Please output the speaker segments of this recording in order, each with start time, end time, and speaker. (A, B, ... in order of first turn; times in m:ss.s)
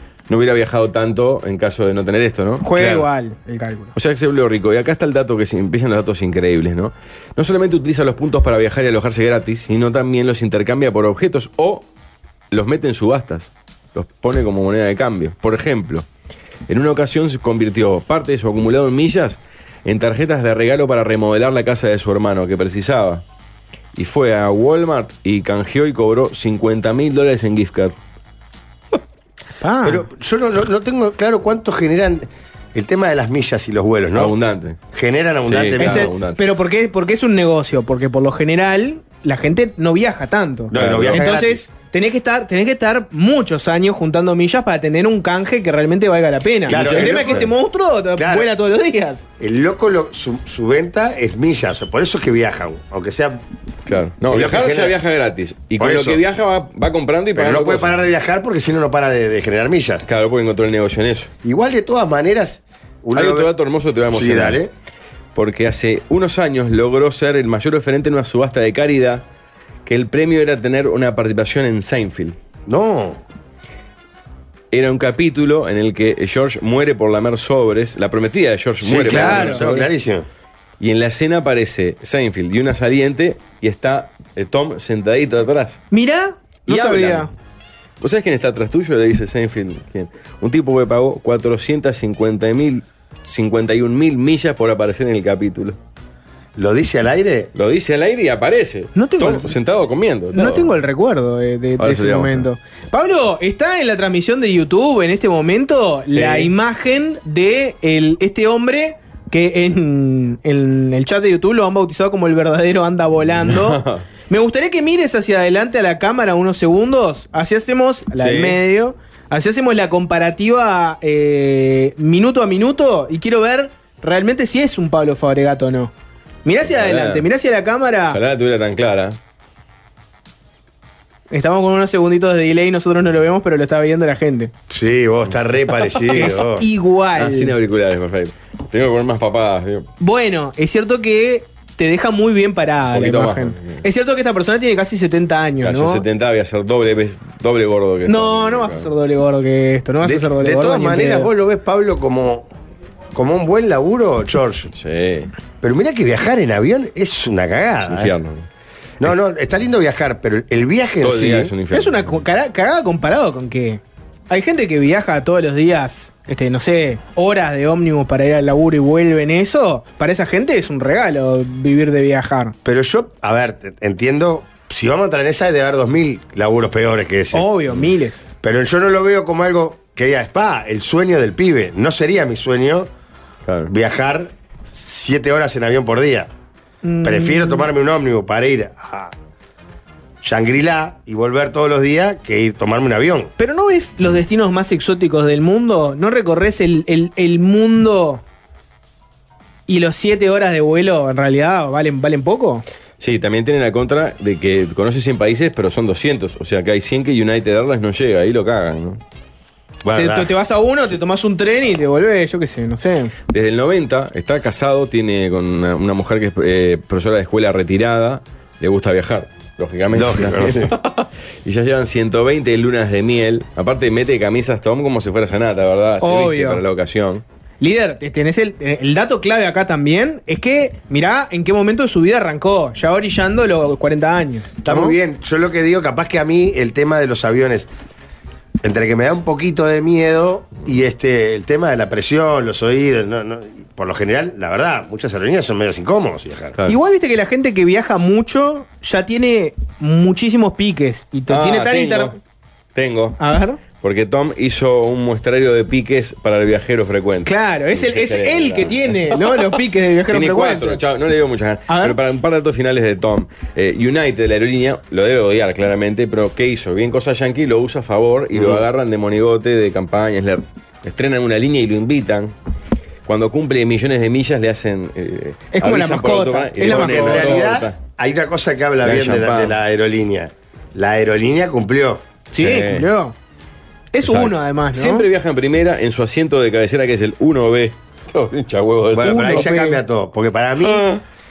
0:00.3-0:03.1 A
0:02.6-0:03.9 B
0:03.9-0:11.9 A
0:12.5-0:16.1 A
0:16.7-0:23.2 A
0:24.0-0:28.0 A
0:29.6-0:30.1 B
0:29.8-0:34.3 C
0:34.2-0:34.8 A
0:34.9-0:36.1 C
0:35.4-0:36.4 A
0:35.8-0:49.2 B
0:40.7-0:41.7 C
0:40.7-0:41.3 A
0:46.7-0:47.5 C
0:46.7-0:47.4 A
0:48.2-0:48.5 C
0:49.4-0:53.4 C
0:53.9-0:58.1 A
0:54.3-0:55.0 C
0:55.8-0:56.2 C
0:57.3-1:00.0 C
1:00.1-1:01.3 A
1:01.4-1:03.5 C
1:03.1-1:04.6 A
1:04.1-1:04.7 C
1:05.4-1:09.2 A
1:09.9-1:12.4 A
1:12.7-1:13.2 C
1:14.7-1:19.9 A
1:18.8-1:20.3 C
1:19.0-1:19.6 B
1:20.8-1:25.8 A
1:25.9-1:27.3 B
1:26.7-1:27.3 A
1:28.0-1:35.8 A
1:36.6-1:37.5 C
1:37.5-1:40.7 A
1:39.0-1:39.5 B
1:40.3-2:05.9 B
1:41.8-1:42.5 A
1:46.1-1:46.5 A
1:53.4-1:54.1 A
1:58.2-1:58.6 A
2:06.4-2:08.2 B
2:06.6-2:07.3 A
2:08.1-2:09.2 A
2:11.3-2:14.5 B
2:14.7-2:16.7 C
2:15.8-2:16.3 A
2:16.1-2:17.6 B
2:17.2-2:19.9 A
2:20.0-2:26.0 B
2:22.9-2:23.8 A
2:25.6-2:28.9 A
2:28.1-2:31.3 B
2:30.0-2:32.5 C
2:33.1-2:34.7 C
2:34.7-2:35.3 A
2:35.6-2:38.2 C
2:37.8-2:38.5 A
2:39.0-2:41.5 C
2:41.0-2:42.2 A
2:41.7-2:52.6 B
2:52.6-2:57.5 C
2:57.3-2:58.3 B
2:58.4-3:02.9 C
3:03.5-3:03.7 A
3:03.7-3:06.3 C
3:06.8-3:07.7 B
3:07.0-3:09.1 C
3:10.2-3:13.3 C
3:13.4-3:18.2 B
3:19.7-3:22.6 B
3:23.0-3:29.0 A
3:29.8-3:30.4 C
3:29.9-3:33.1 B
3:33.3-3:47.2 A
3:39.9-3:40.8 C
3:46.0-3:46.6 B
3:47.6-3:55.0 B
3:54.6-3:57.7 C
3:58.6-4:06.6 C
4:06.7-4:12.2 B
4:11.3-4:12.2 A
4:12.8-4:13.2 A
4:13.2-4:13.6 B
4:13.7-4:19.4 A
4:17.3-4:20.8 B
4:20.1-4:32.4 A
4:21.7-4:22.0 B
4:28.3-4:28.6 C
4:33.1-4:37.8 A
4:35.5-4:37.4 B
4:36.6-4:42.0 C
4:38.8-4:39.6 A
4:42.3-4:42.9 A
4:42.3-4:43.2 B
4:43.9-4:45.1 B
4:44.0-4:49.5 A
4:48.9-4:50.9 C
4:49.0-4:49.8 B
4:50.6-4:51.0 A